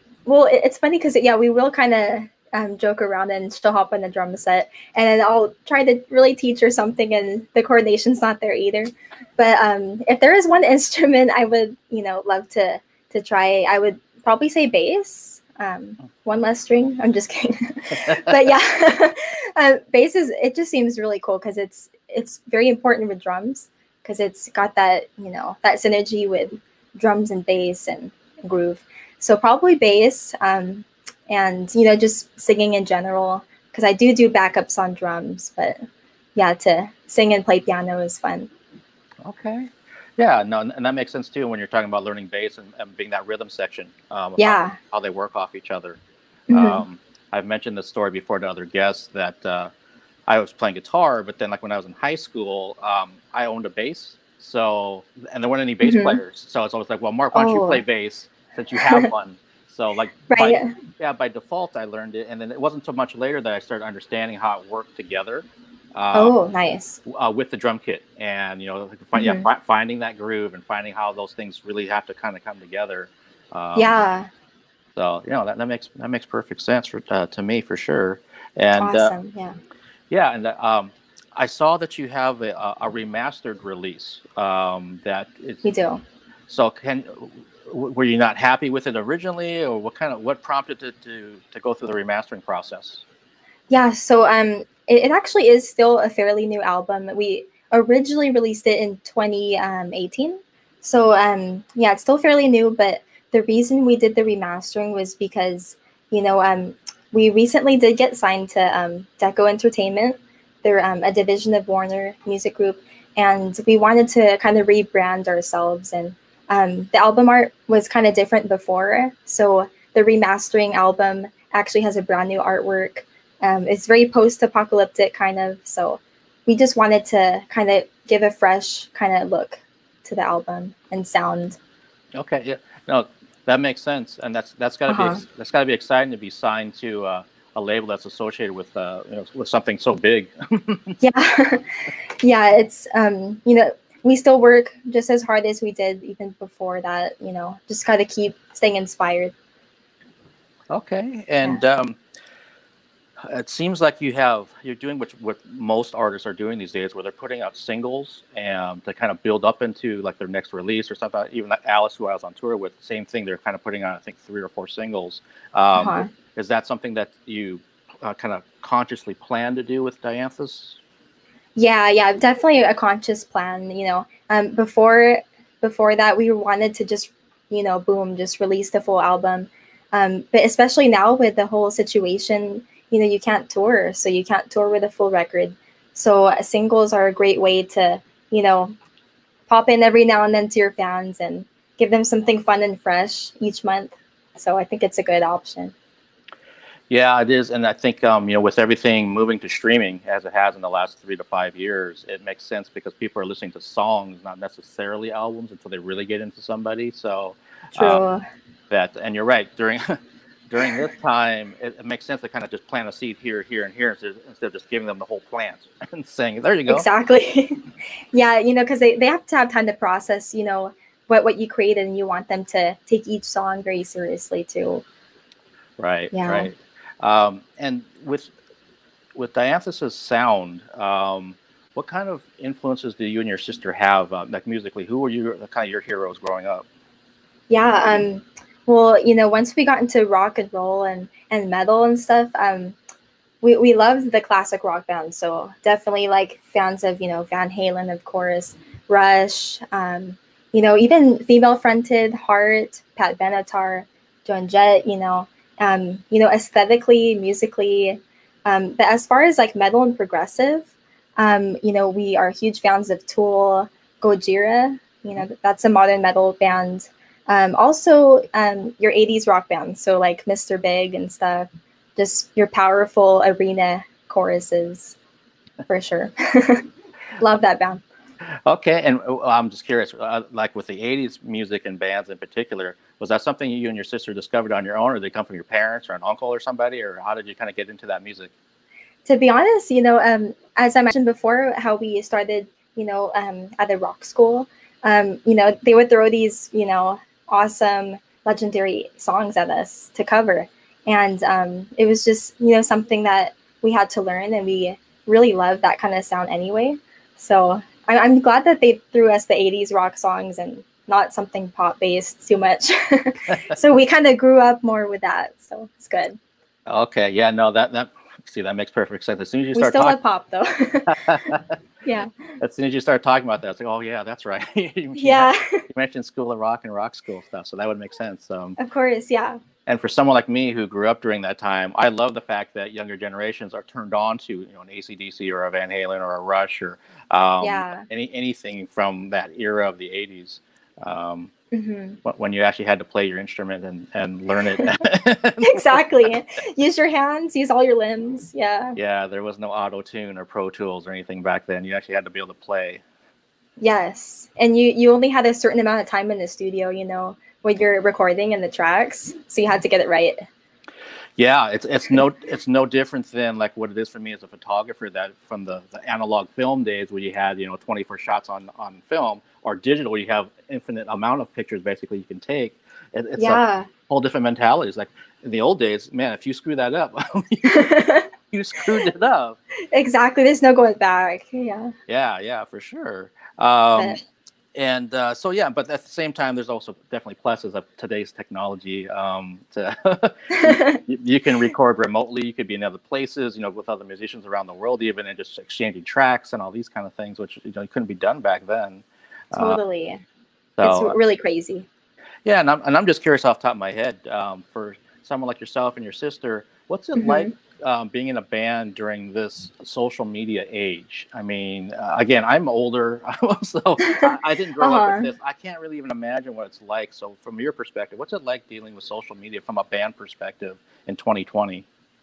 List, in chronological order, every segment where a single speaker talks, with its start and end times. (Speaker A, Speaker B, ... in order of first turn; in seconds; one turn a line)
Speaker A: 0.2-35.8
Speaker A: 36.4-38.5
Speaker B: 39.2-46.0
Speaker A: 44.4-44.8
Speaker A: 46.5-46.8
Speaker B: 46.5-49.7
Speaker B: 50.3-66.3
Speaker A: 55.8-56.2
Speaker A: 57.4-57.8
Speaker A: 60.3-60.7
Speaker A: 66.1-67.0
Speaker B: 67.0-74.0
Speaker A: 69.2-69.5
Speaker A: 73.8-74.3
Speaker B: 75.0-79.1
Speaker A: 78.8-79.5
Speaker B: 80.1-85.7
Speaker A: 85.6-86.0
Speaker B: 86.5-93.0
Speaker A: 93.7-131.6
Speaker B: 132.2-141.0
Speaker A: 134.9-135.2
Speaker A: 141.0-141.7
Speaker A: 142.2-149.3
Speaker B: 150.7-152.0
Speaker B: 153.3-170.8
Speaker A: 165.8-166.1
Speaker A: 171.6-188.8
Speaker A: 189.5-195.7
Speaker B: 196.9-208.0
Speaker A: 207.8-208.2
Speaker B: 208.7-210.0
Speaker B: 210.5-216.9
Speaker A: 216.7-217.6
Speaker A: 218.1-224.8
Speaker B: 225.8-228.3
Speaker A: 226.1-226.5
Speaker B: 229.1-236.6
Speaker A: 237.5-242.8
Speaker A: 243.4-274.9
Speaker A: 275.7-276.6
Speaker A: 277.2-277.8
Speaker B: 278.4-288.3
Speaker A: 289.1-316.2
Speaker B: 316.7-320.0
Speaker A: 319.6-321.0
Speaker B: 320.9-321.5
Speaker A: 321.9-322.1
Speaker B: 322.4-328.6
Speaker A: 324.9-325.6
Speaker A: 328.6-329.4
Speaker B: 329.6-341.3
Speaker A: 337.4-337.9
Speaker A: 341.5-342.0
Speaker B: 342.0-345.8
Speaker A: 345.4-348.8
Speaker B: 348.8-352.8
Speaker A: 353.6-360.3
Speaker B: 361.2-379.4
Speaker A: 373.2-373.7
Speaker A: 377.4-378.1
Speaker A: 379.7-381.7
Speaker B: 381.9-384.0
Speaker B: 384.6-399.6
Speaker A: 390.4-390.8
Speaker A: 399.3-400.0
Speaker B: 400.6-401.0
Speaker A: 400.6-401.7
Speaker B: 402.2-421.6
Speaker A: 406.9-407.3
Speaker A: 413.9-415.1